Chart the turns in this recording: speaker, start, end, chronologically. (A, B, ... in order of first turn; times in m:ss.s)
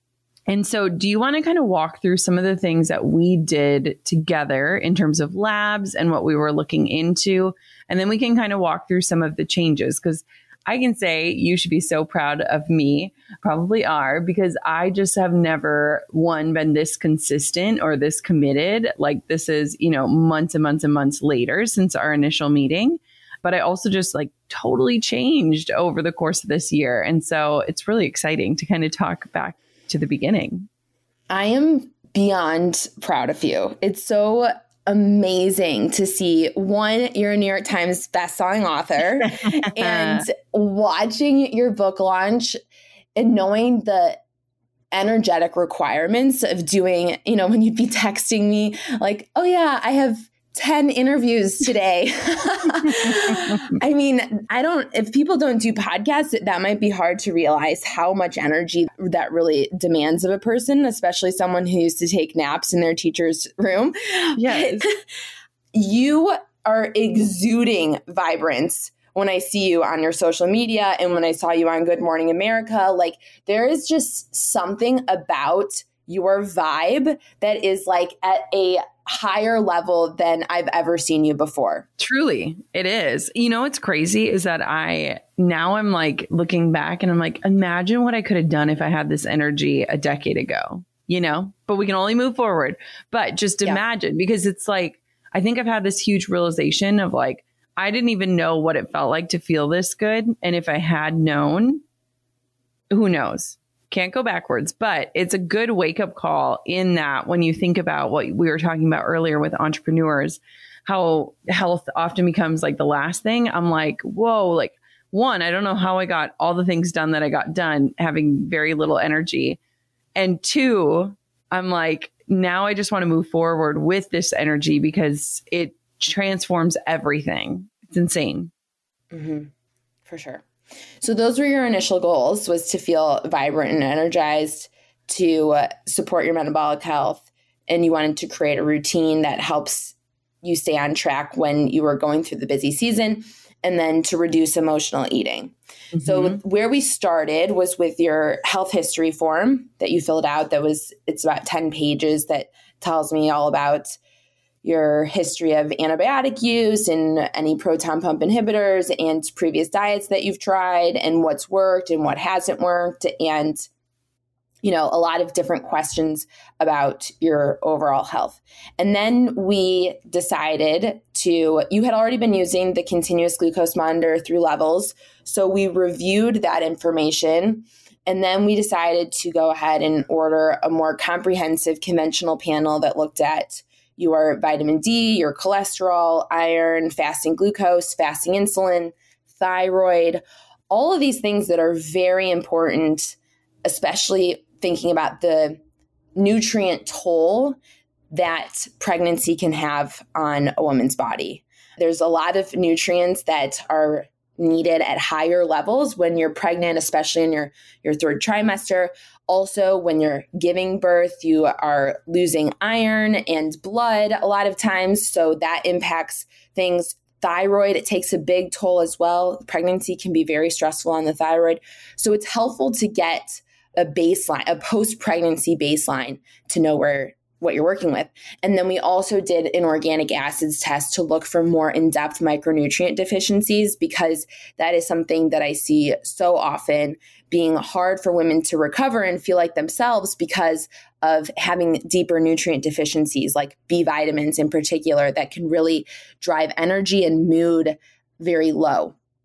0:00.5-0:30.7 A
0:31.3-0:42.6 B
0:39.3-0:40.2 A
0:43.2-0:44.2 B
0:44.9-1:04.9 B
0:52.9-0:53.7 A
1:04.4-1:04.9 A
1:05.7-1:21.9 B
1:22.0-1:41.8 A
1:42.9-1:59.6 A
2:00.1-2:08.5 A
2:09.1-2:09.5 B
2:10.0-2:10.4 B
2:11.0-2:34.0 B
2:26.0-2:26.3 A
2:34.6-2:43.7 B
2:44.6-3:15.6 B
3:16.2-3:17.6 B
3:18.1-4:08.9 B